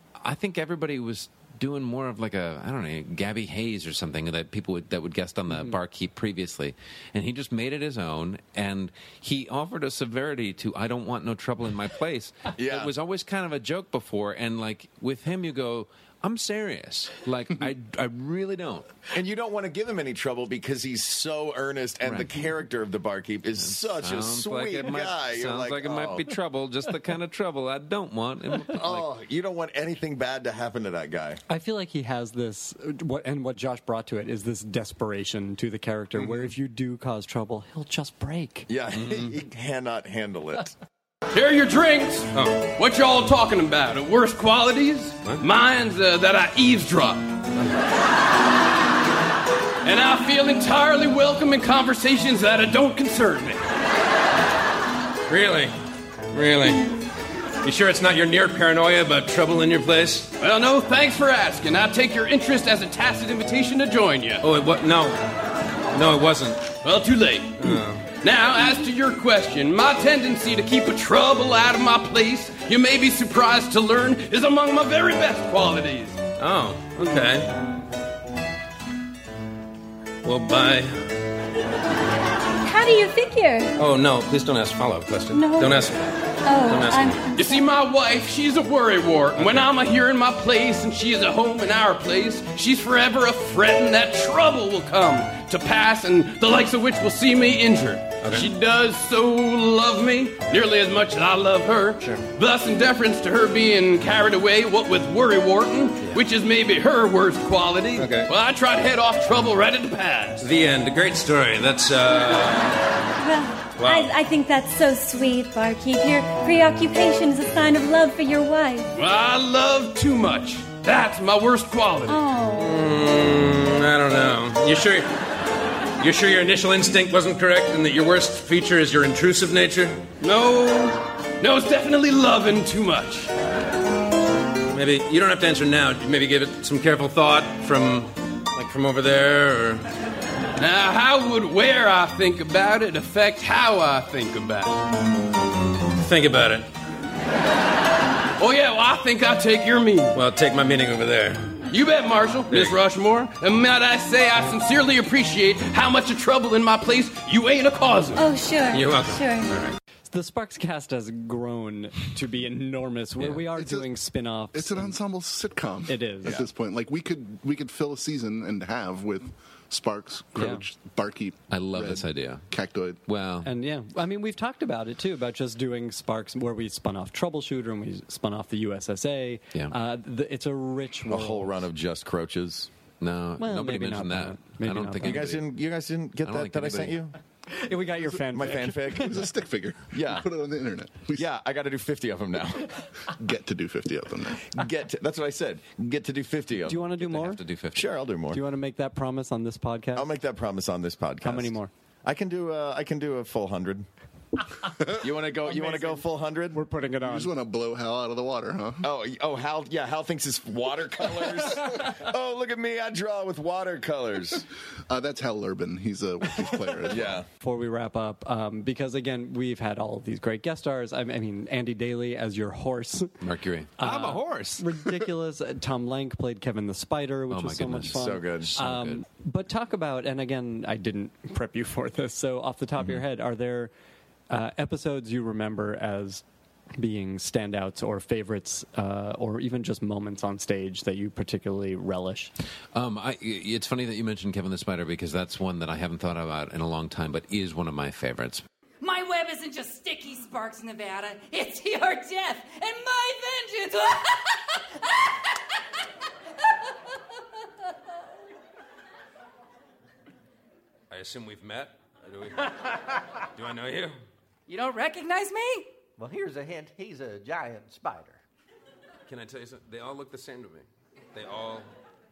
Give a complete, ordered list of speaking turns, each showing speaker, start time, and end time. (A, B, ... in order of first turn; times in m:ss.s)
0:00.2-0:18.9 A
0:12.6-0:12.9 B
0:19.1-0:26.2 B
0:22.0-0:22.5 A
0:23.6-0:29.1 A
0:28.6-0:31.4 B
0:31.5-0:38.7 C
0:36.2-0:36.5 B
0:38.7-0:40.7 B
0:38.9-0:39.4 A
0:41.3-0:47.3 D
0:42.3-0:42.6 E
0:49.8-0:53.6 D
0:55.3-0:55.7 E
0:56.3-0:56.9 E
0:57.6-1:00.3 E
1:00.3-1:04.4 D
1:04.4-1:05.2 E
1:05.9-1:06.7 E
1:06.8-1:16.2 D
1:07.6-1:08.1 E
1:16.4-1:17.5 E
1:20.2-1:21.0 E
1:22.6-1:23.7 F
1:23.8-1:26.0 E
1:25.3-1:25.8 F
1:26.4-1:27.6 F
1:26.6-1:27.3 E
1:27.4-1:50.5 D
1:29.4-1:29.7 E
1:38.2-1:38.5 E
1:47.9-1:48.3 E
1:50.4-1:52.8 E
1:53.2-1:58.9 F
1:53.8-1:54.1 E
1:59.0-2:02.2 D
2:02.1-2:02.8 F
2:02.6-2:05.1 E
2:06.0-2:10.9 E
2:10.2-2:13.3 D
2:14.7-2:19.8 E
2:20.6-2:24.7 D
2:25.9-2:26.7 E
2:28.4-2:30.2 D
2:30.1-2:31.6 E
2:31.7-2:38.3 D
2:32.5-2:32.8 E
2:38.2-2:39.5 F
2:38.7-2:39.7 E
2:40.1-2:44.9 C
2:43.6-2:43.9 G
2:44.5-2:53.0 G
2:45.9-2:46.4 C
2:50.4-2:50.6 C
2:51.5-2:52.4 A
2:53.0-2:53.5 A
2:53.4-3:01.5 C
3:01.1-3:02.7 B
3:03.0-3:05.5 A
3:03.4-3:05.3 C
3:05.0-3:07.1 B
3:06.2-3:07.0 A
3:07.5-3:09.1 C
3:08.3-3:09.1 B
3:08.9-3:11.3 G
3:09.9-3:10.2 B
3:11.2-3:12.7 B
3:13.1-3:14.5 G
3:14.5-3:16.8 B
3:16.6-3:17.4 C
3:17.0-3:17.9 A
3:17.7-3:18.4 B
3:18.3-3:20.0 C
3:19.9-3:23.8 B
3:21.2-3:21.7 C
3:25.0-3:26.6 B
3:25.5-3:27.3 C
3:27.0-3:28.9 G
3:28.8-3:34.4 B
3:34.9-3:37.2 G
3:36.8-3:37.2 B
3:37.4-3:43.1 C
3:43.2-3:44.6 A
3:43.8-3:53.7 C
3:47.3-3:49.0 A
3:47.9-3:48.5 B
3:54.3-3:56.2 C
3:56.8-4:02.3 C
4:02.7-4:08.4 A
4:08.8-4:15.2 H
4:20.9-4:22.6 E
4:23.3-4:24.0 E
4:24.5-4:25.7 H
4:26.0-4:28.2 I
4:29.1-4:31.7 E